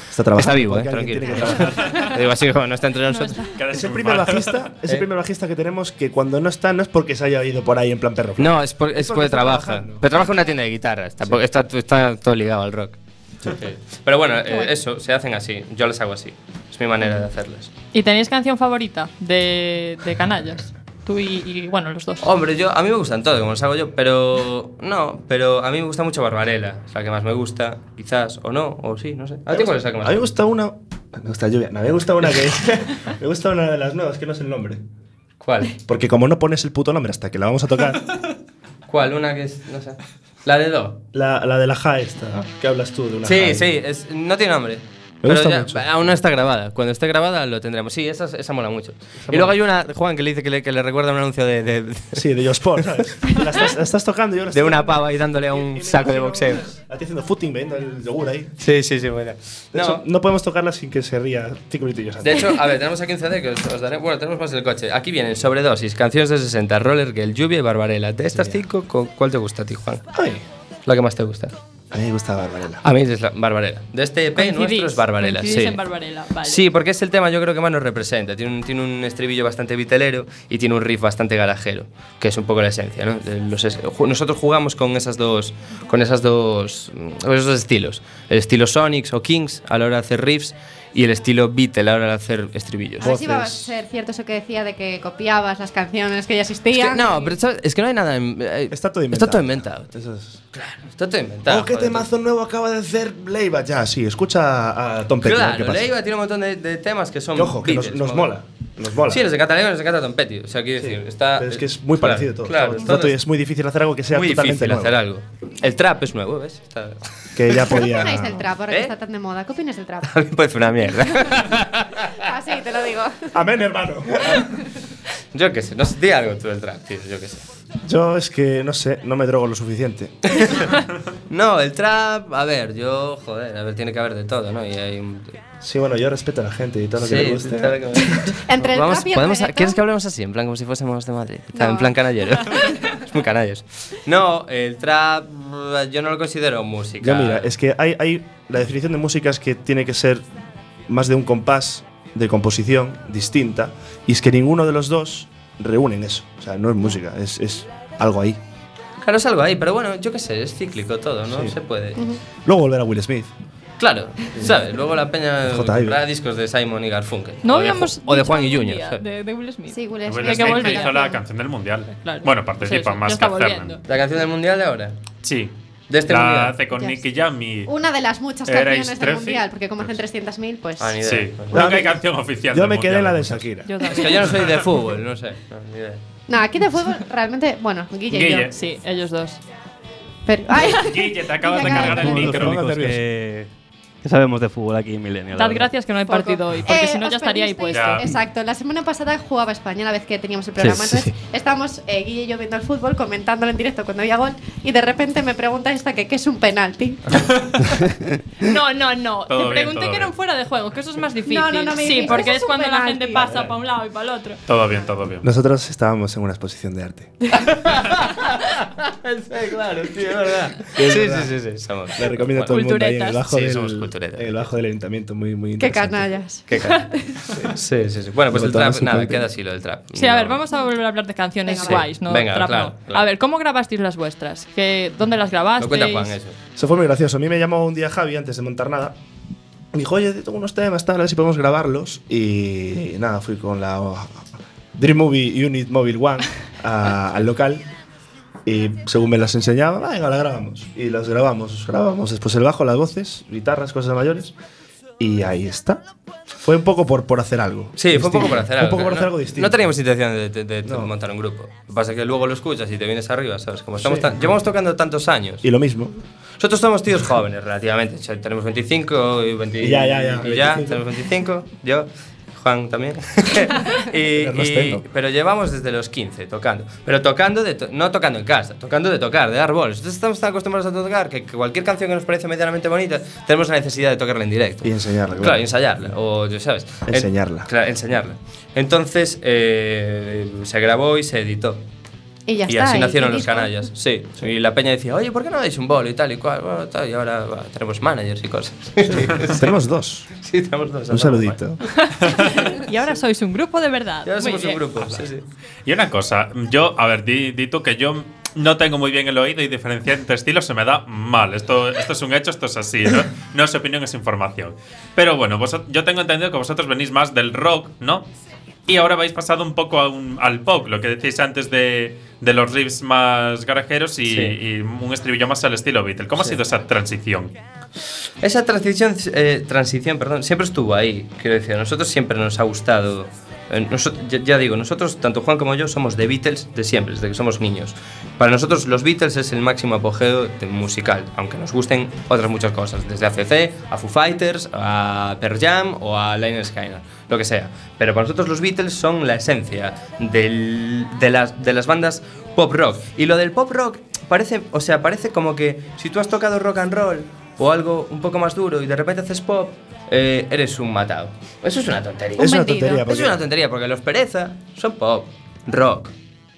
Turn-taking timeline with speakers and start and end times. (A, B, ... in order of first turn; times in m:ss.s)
0:00.1-0:01.8 A
0:00.3-0:03.5 B
0:03.1-0:03.5 C
0:03.6-0:04.6 D
0:03.7-0:10.1 A
0:08.4-0:17.7 B
0:17.9-0:22.3 C
0:22.2-0:30.3 B
0:29.5-0:34.8 A
0:35.4-0:35.8 B
0:35.9-0:38.1 A
0:38.9-0:41.0 B
0:41.1-0:43.7 A
0:43.2-0:52.3 B
0:45.2-0:45.9 A
0:49.2-0:49.6 A
0:52.2-0:58.6 A
0:52.8-0:53.4 B
0:54.5-0:56.7 B
0:58.6-1:00.1 B
0:59.7-1:02.6 A
1:02.2-1:10.0 B
1:08.4-1:08.6 A
1:10.1-1:10.4 A
1:10.9-1:11.6 B
1:11.9-1:12.8 A
1:12.8-1:15.8 B
1:14.4-1:16.6 C
1:16.4-1:33.2 B
1:33.0-1:37.4 E
1:33.0-1:33.7 A
1:36.7-1:39.9 B
1:38.7-1:40.4 A
1:40.5-1:42.1 B
1:41.5-1:45.9 A
1:45.2-1:48.3 B
1:47.4-1:49.3 A
1:49.1-1:53.2 B
1:50.8-1:55.0 A
1:54.1-1:57.8 B
1:57.4-1:58.4 A
1:57.8-2:00.1 E
1:58.7-1:58.9 B
2:00.0-2:02.2 B
2:02.2-2:03.3 E
2:03.3-2:04.5 A
2:05.3-2:07.4 B
2:07.8-2:10.2 A
2:10.3-2:15.4 B
2:15.6-2:18.0 A
2:17.0-2:27.5 B
2:18.4-2:19.8 E
2:21.5-2:22.9 E
2:27.0-2:30.2 A
2:30.9-2:38.4 A
2:39.0-2:42.1 B
2:42.4-2:43.3 A
2:43.8-2:49.0 B
2:45.5-2:46.0 A
2:47.4-2:51.1 C
2:49.7-2:51.2 E
2:50.1-2:53.8 D
2:52.0-2:53.8 C
2:53.9-2:55.0 B
2:55.2-2:55.5 D
2:55.9-2:56.6 B
2:56.1-2:57.7 D
2:57.7-3:01.0 E
2:58.5-2:59.9 D
3:00.8-3:01.7 B
3:01.0-3:03.5 D
3:01.5-3:03.8 A
3:03.7-3:04.3 C
3:03.8-3:06.0 B
3:06.3-3:08.5 E
3:08.1-3:08.5 D
3:08.5-3:09.4 C
3:10.3-3:12.4 E
3:10.7-3:12.6 D
3:11.8-3:13.5 F
3:12.1-3:13.0 A
3:14.0-3:15.7 F
3:15.3-3:18.1 C
3:16.1-3:27.2 E
3:17.7-3:18.1 D
3:20.6-3:21.1 F
3:27.2-3:27.6 D
3:28.4-3:34.4 C
3:29.3-3:30.1 D
3:31.3-3:33.3 E
3:33.2-3:33.5 B
3:34.5-3:35.3 D
3:35.2-3:37.2 A
3:37.4-3:42.6 B
3:40.8-3:41.3 A
3:42.0-3:46.1 A
3:42.5-3:43.2 C
3:43.2-3:44.5 B
3:45.6-3:47.3 E
3:46.5-3:50.4 B
3:48.3-3:49.3 A
3:49.9-3:56.2 C
3:51.5-3:51.8 E
3:51.6-3:53.0 B
3:55.6-3:56.4 B
3:56.6-3:59.0 A
3:59.7-4:04.2 A
4:04.8-4:07.6 A
4:08.5-4:14.3 A
4:15.0-4:15.8 A
4:16.4-4:19.7 A
4:17.8-4:25.5 B
4:20.6-4:20.9 A
4:23.8-4:24.2 A
4:25.4-4:26.0 A
4:26.4-4:51.6 B
4:29.6-4:30.8 A
4:34.2-4:34.8 A
4:44.6-4:45.5 A
4:46.9-4:47.5 A
4:52.3-4:53.7 E
4:52.5-4:59.5 B
4:58.9-5:00.1 A
5:00.1-5:01.4 B
5:00.9-5:01.6 A
5:01.8-5:04.6 C
5:04.0-5:05.2 B
5:05.7-5:18.1 D
5:18.7-5:27.3 D
5:24.1-5:24.4 B
5:28.2-6:05.9 B
6:02.2-6:02.8 E
6:02.2-6:03.2 A